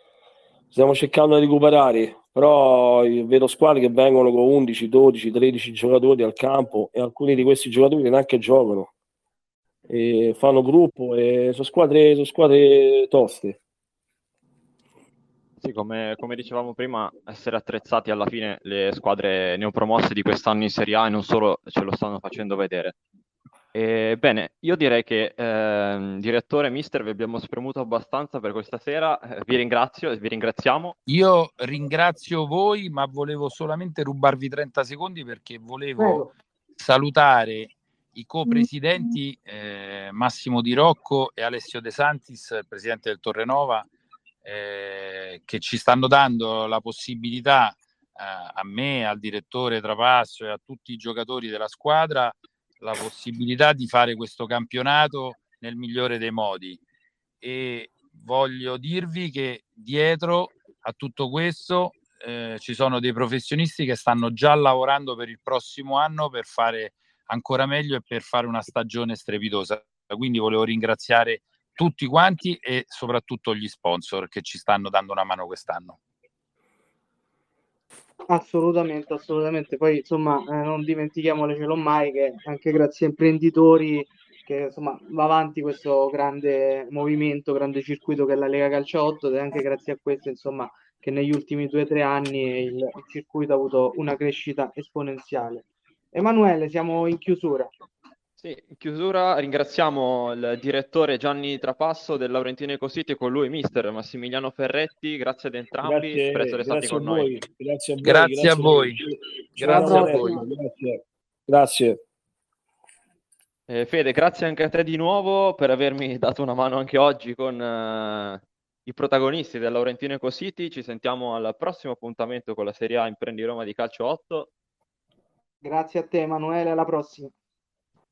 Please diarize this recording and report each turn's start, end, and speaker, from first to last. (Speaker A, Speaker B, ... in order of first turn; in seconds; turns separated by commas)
Speaker A: 0.7-8.9, Speaker A: 9.9-13.6, Speaker B: 15.6-22.9, Speaker B: 23.7-30.9, Speaker C: 31.1-43.9, Speaker D: 36.0-36.3, Speaker C: 44.4-56.8, Speaker C: 57.4-76.0, Speaker D: 78.3-97.7, Speaker B: 98.4-107.3, Speaker A: 105.8-112.0, Speaker C: 108.0-109.0, Speaker C: 109.5-110.4, Speaker D: 109.6-110.4, Speaker B: 113.7-124.5, Speaker D: 125.6-127.3